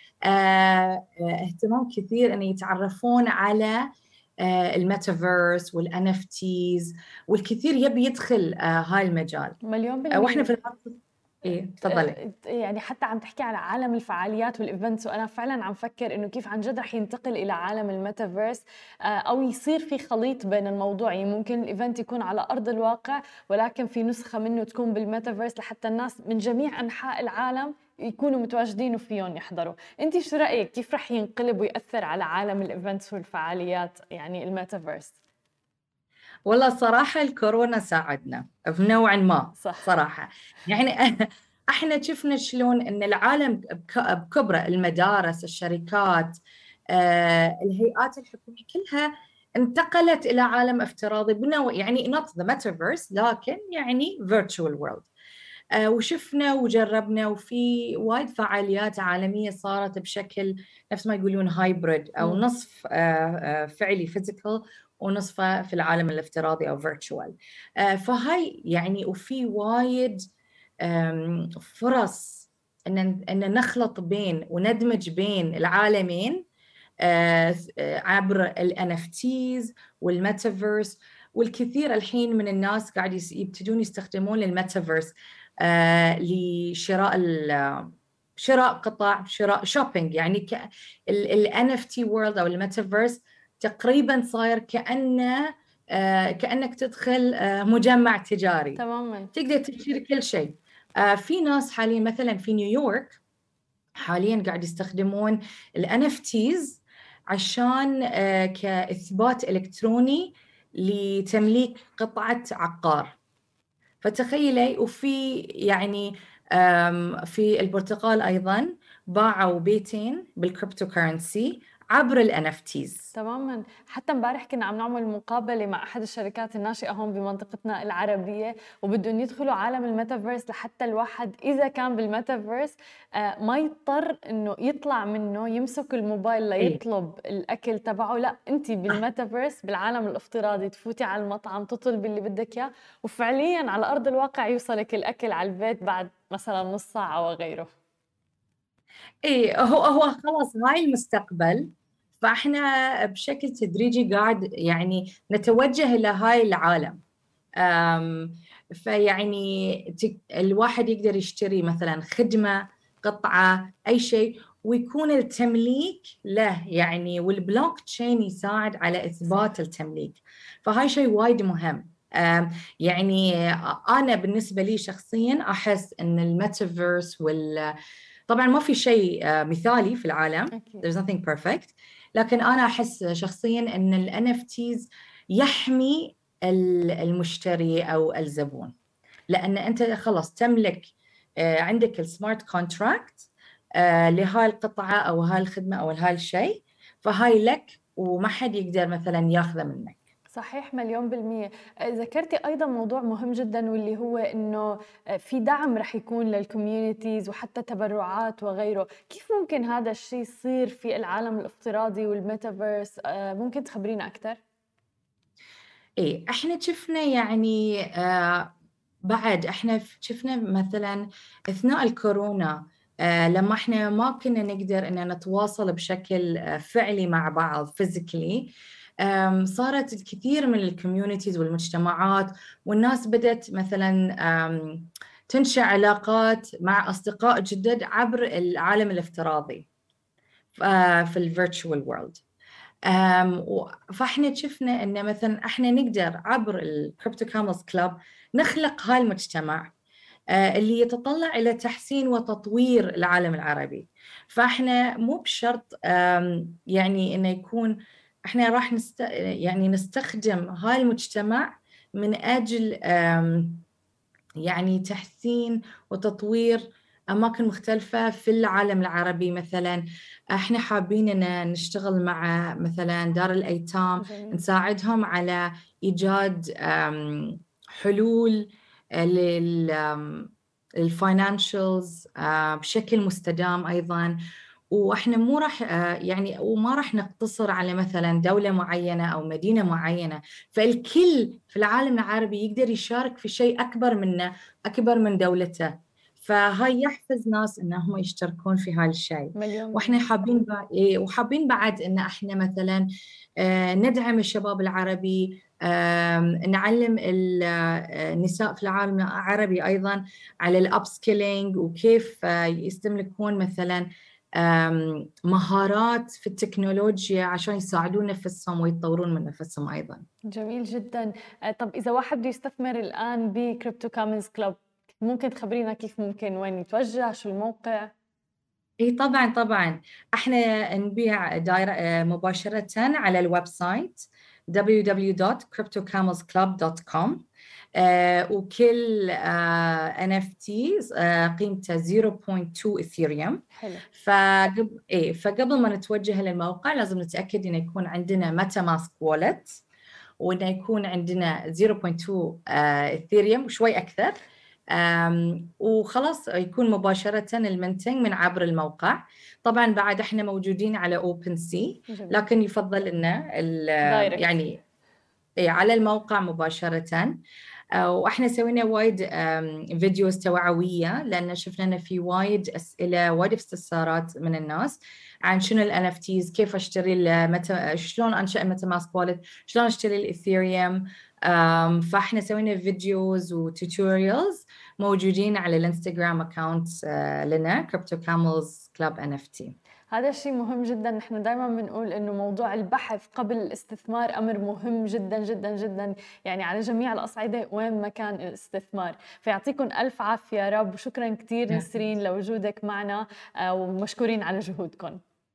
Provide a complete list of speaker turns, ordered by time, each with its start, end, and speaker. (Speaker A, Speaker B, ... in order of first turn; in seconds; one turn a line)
Speaker A: 0.2-3.9
Speaker A: 4.4-9.6
Speaker B: 9.6-10.5
Speaker A: 10.1-12.2
Speaker B: 11.9-35.2
Speaker A: 36.5-46.4
Speaker B: 39.6-39.9
Speaker A: 46.9-55.1
Speaker A: 55.8-70.2
Speaker A: 70.8-76.4
Speaker A: 77.0-98.8
Speaker B: 98.8-99.3
Speaker A: 99.3-103.2
Speaker A: 104.0-113.2
Speaker A: 114.0-123.1
Speaker B: 123.1-147.7
Speaker A: 149.2-151.7
Speaker A: 152.2-157.0
Speaker A: 157.6-177.8
Speaker A: 178.3-188.7
Speaker B: 180.5-180.9
Speaker A: 189.3-200.0
Speaker B: 200.3-214.4
Speaker A: 216.0-218.5
Speaker A: 219.1-239.7
Speaker A: 240.6-242.2
Speaker A: 242.9-249.7
Speaker A: 250.3-263.6
Speaker A: 264.4-284.2
Speaker B: 274.0-274.4
Speaker A: 284.7-302.9
Speaker B: 299.4-300.0
Speaker A: 303.4-320.0
Speaker B: 320.3-327.9
Speaker A: 328.8-337.2
Speaker A: 337.8-343.4
Speaker B: 343.6-343.9
Speaker A: 343.9-349.6
Speaker A: 350.2-354.2
Speaker A: 354.7-364.6
Speaker B: 361.9-362.2
Speaker B: 363.8-364.4
Speaker A: 365.4-367.2
Speaker A: 367.8-389.6
Speaker B: 389.9-405.0